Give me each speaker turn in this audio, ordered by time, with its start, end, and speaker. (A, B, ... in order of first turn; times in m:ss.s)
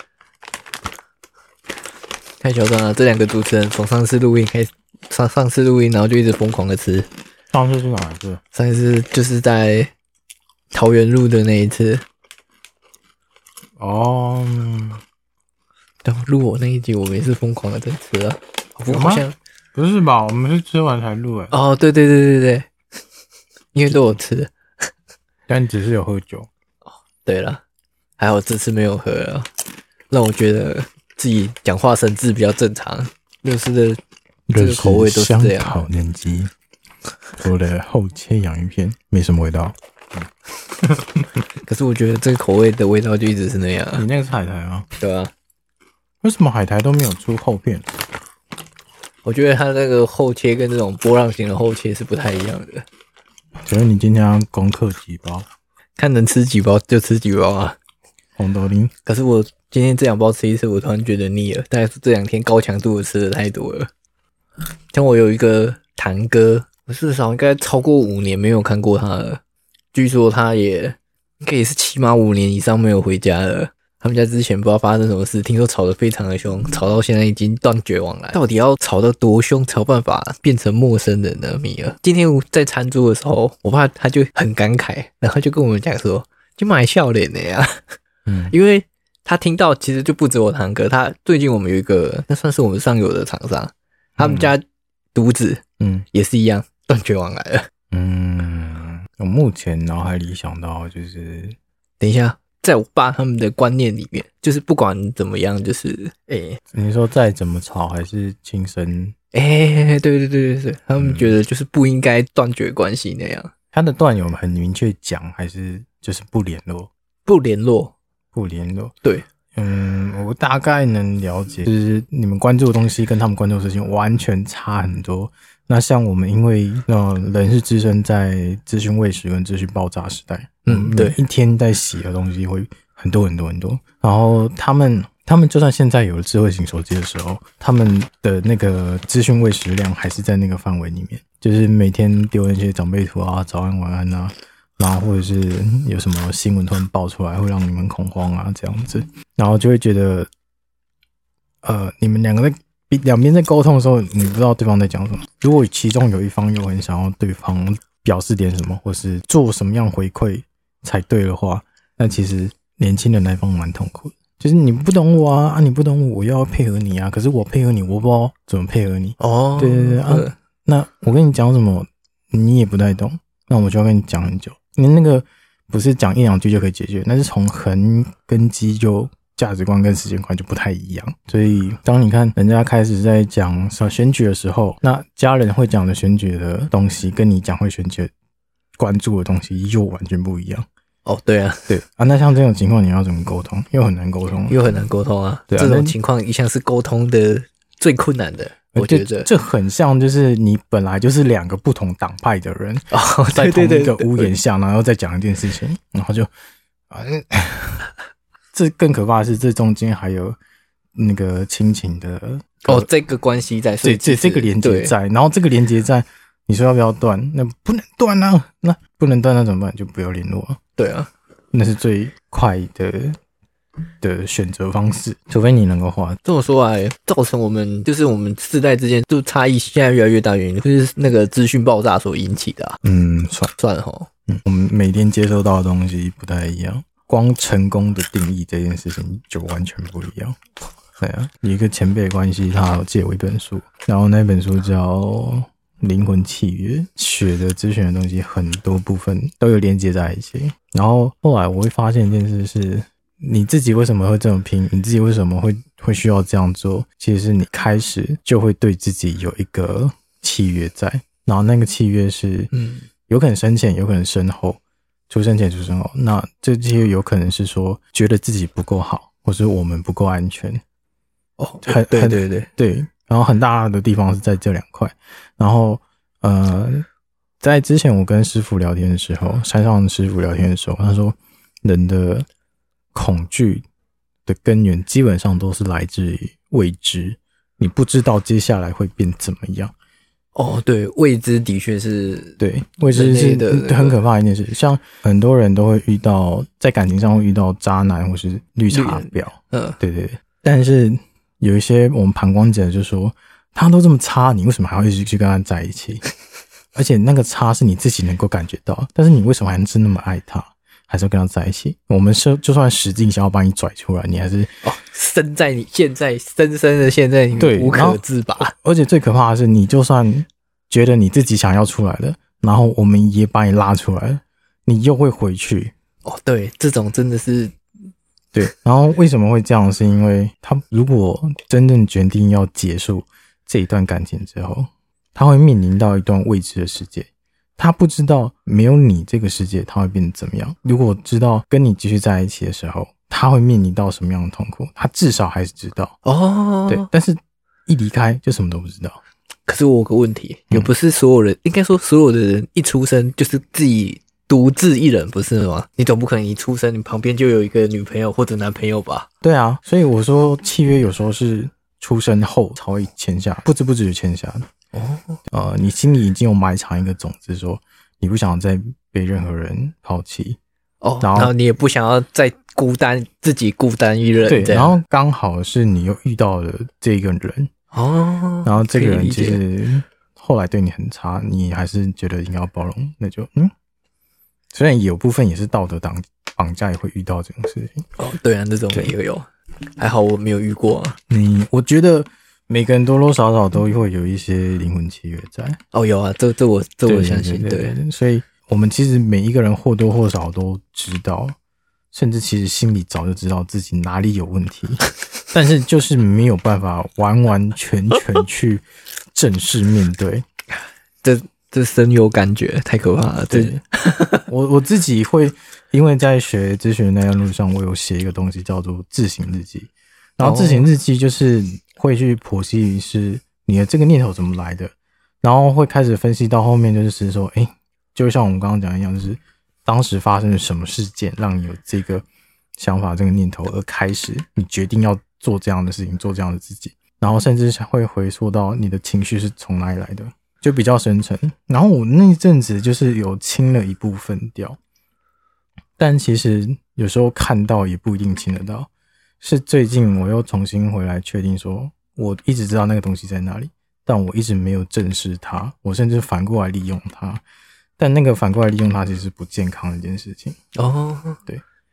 0:02.4-0:07.1 A
0:07.5-0:08.4 B
0:08.5-0:09.9 A
0:10.7-0:12.0 A
0:13.8-0:15.0 B
0:16.0-0:19.4 A
0:18.9-0:21.5 B
0:21.5-0:22.7 A
0:23.7-0:24.5 A
0:25.5-0:26.5 B
0:27.2-0:27.6 A
0:28.2-0:29.5 A
0:30.1-0:34.0 A
0:34.5-0:36.5 B
0:34.6-0:35.8 A
0:37.4-0:40.3 B
0:40.9-0:41.3 B
0:41.6-0:44.0 A
0:44.0-0:44.9 B
0:45.0-0:45.3 A
0:46.2-0:47.8 B
0:49.2-0:52.9 A
0:53.7-0:55.5 B
0:56.0-0:57.8 A
0:58.4-0:58.9 B
0:59.1-1:03.9 A
1:04.9-1:09.4 A
1:09.9-1:28.0 A
1:28.3-1:28.5 B
1:28.5-1:34.6 A
1:34.2-1:34.6 B
1:35.1-1:37.7 A
1:35.8-1:36.0 B
1:37.9-1:41.6 B
1:42.0-1:46.6 A
1:46.7-1:49.2 B
1:49.3-1:53.5 A
1:51.0-1:51.3 B
1:53.7-1:56.9 B
1:57.3-1:57.9 A
1:58.3-1:58.9 B
1:59.5-2:30.3 B
2:10.7-2:11.2 A
2:31.6-3:08.1 B
2:49.2-2:50.3 A
3:08.8-3:10.6 B
3:11.1-3:11.7 A
3:11.7-3:14.6 B
3:14.5-3:19.3 A
3:15.5-3:16.0 B
3:18.7-3:26.3 B
3:22.9-3:24.3 A
3:26.9-3:27.9 B
3:28.5-3:30.4 B
3:31.0-3:32.9 B
3:32.6-3:35.0 A
3:33.8-3:40.6 B
3:40.8-3:41.1 A
3:41.5-3:43.2 B
3:44.0-3:46.2 B
3:46.2-3:52.8 A
3:52.8-3:53.5 B
3:53.6-3:54.1 A
3:54.3-4:00.4 B
4:01.0-4:22.5 B
4:22.5-4:22.9 A
4:23.1-4:30.6 B
4:31.4-4:32.5 A
4:31.6-4:36.8 B
4:37.4-4:42.3 B
4:42.9-4:43.6 B
4:44.3-4:49.7 B
4:50.4-4:54.0 A
4:52.4-5:06.0 B
4:58.7-4:59.8 A
5:06.8-5:14.5 B
5:14.6-5:18.5 A
5:17.4-5:25.7 B
5:26.0-5:27.6 A
5:28.3-5:45.9 B
5:46.0-5:46.9 A
5:46.7-5:49.0 B
5:49.5-5:59.1 A
5:59.2-6:04.5 B
6:04.7-6:05.2 A
6:05.3-6:10.4 B
6:10.8-6:14.8 A
6:11.0-6:11.3 B
6:14.3-6:17.5 B
6:17.7-6:19.4 A
6:18.4-6:23.5 B
6:24.5-6:27.9 B
6:28.0-6:31.0 A
6:31.1-6:35.6 B
6:35.7-6:37.8 A
6:36.9-6:41.4 B
6:41.9-6:50.2 B
6:51.0-6:54.2 A
6:53.3-6:53.6 B
6:54.3-7:12.0 B
7:00.2-7:00.7 A
7:12.6-7:24.6 B
7:25.8-7:28.7 B
7:29.2-7:37.2 B
7:37.8-7:40.4 B
7:40.6-7:41.2 A